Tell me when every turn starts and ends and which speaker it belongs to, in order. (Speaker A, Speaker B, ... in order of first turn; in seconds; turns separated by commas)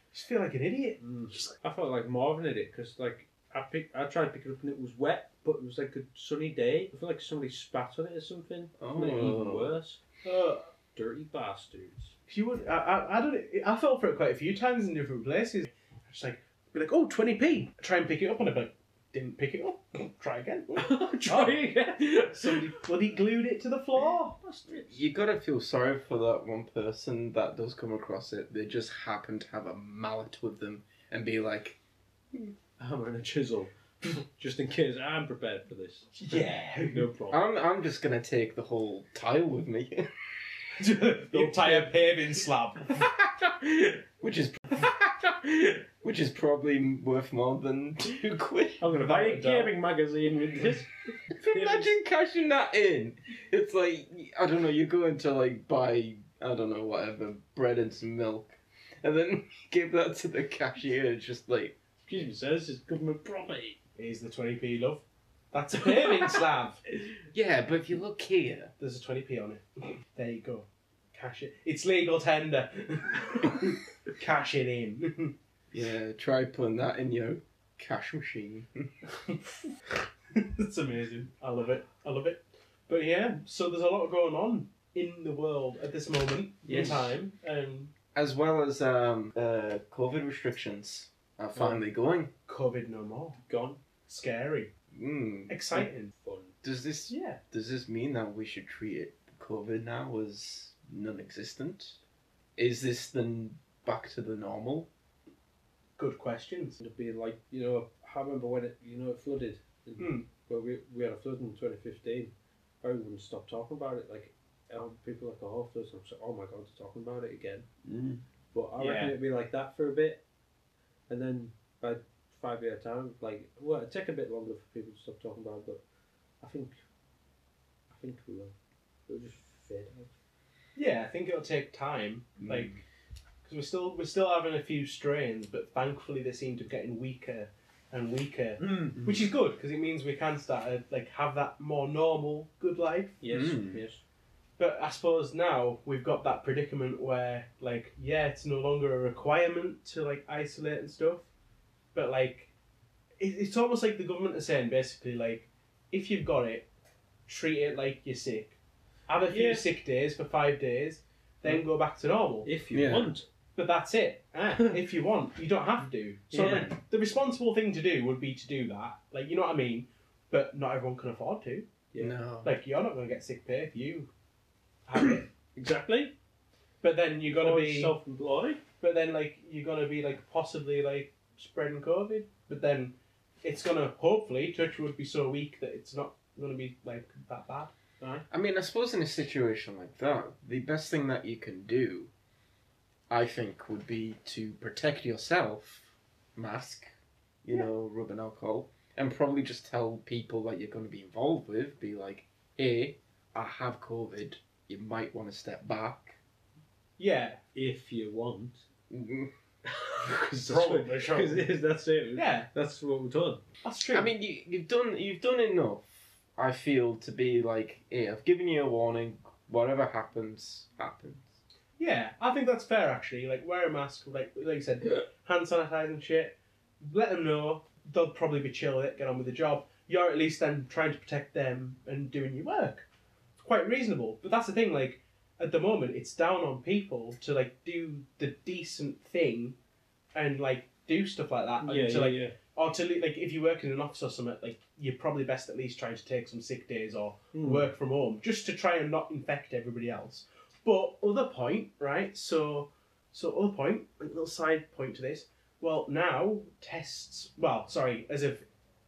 Speaker A: 0.1-1.4, Speaker B: 1.0-10.0, Speaker C: 8.8-9.7, Speaker A: 10.2-10.7, Speaker B: 10.9-12.1, Speaker A: 12.3-21.6, Speaker B: 20.8-22.7, Speaker A: 22.3-24.4, Speaker B: 24.4-25.0, Speaker C: 24.8-31.8, Speaker B: 32.8-37.4, Speaker A: 36.2-37.1, Speaker C: 37.3-40.1, Speaker A: 40.8-43.0, Speaker B: 41.3-41.9, Speaker B: 43.4-44.0, Speaker C: 44.2-48.8, Speaker B: 48.8-51.9, Speaker A: 48.9-49.7, Speaker C: 51.3-61.8, Speaker B: 62.0-63.8, Speaker A: 64.0-66.8, Speaker C: 67.3-68.7, Speaker A: 68.8-75.3, Speaker C: 75.7-78.9, Speaker A: 80.3-87.9, Speaker B: 86.7-87.0, Speaker C: 86.7-87.0, Speaker C: 88.1-92.3, Speaker A: 92.5-93.4, Speaker B: 93.5-93.8, Speaker A: 94.1-94.7, Speaker C: 94.9-95.9, Speaker A: 95.5-96.1, Speaker B: 96.1-96.5, Speaker C: 96.6-102.0, Speaker A: 97.1-97.4, Speaker C: 102.6-104.9, Speaker A: 106.0-106.8, Speaker B: 106.8-120.2, Speaker A: 110.0-110.3, Speaker A: 118.8-119.1, Speaker B: 121.1-125.8, Speaker B: 126.4-126.8, Speaker B: 127.9-128.5, Speaker B: 129.1-130.1, Speaker A: 130.8-132.8, Speaker C: 132.4-132.8, Speaker A: 133.4-143.2, Speaker B: 138.6-139.0, Speaker B: 143.2-144.0, Speaker C: 143.3-143.8, Speaker A: 144.6-151.3, Speaker A: 151.9-152.5, Speaker A: 153.2-156.7, Speaker A: 157.3-158.6, Speaker A: 159.1-162.5, Speaker B: 159.3-159.7, Speaker B: 162.4-163.2, Speaker C: 162.7-163.1, Speaker A: 163.6-171.7, Speaker B: 166.3-166.7, Speaker C: 172.0-172.5, Speaker A: 172.4-174.1, Speaker A: 174.9-175.3, Speaker B: 175.0-176.1, Speaker A: 176.8-177.9, Speaker B: 177.3-178.6, Speaker A: 178.8-187.7, Speaker C: 188.3-192.1, Speaker C: 193.1-196.9, Speaker C: 197.4-206.2, Speaker A: 207.0-207.4, Speaker B: 207.5-208.6, Speaker C: 208.9-209.3, Speaker B: 209.6-213.4, Speaker A: 210.5-211.5, Speaker A: 212.2-212.5, Speaker A: 213.6-214.1, Speaker C: 213.9-221.3, Speaker A: 221.8-232.8, Speaker A: 233.4-239.6, Speaker A: 240.1-258.4, Speaker B: 241.6-242.3, Speaker B: 247.3-247.7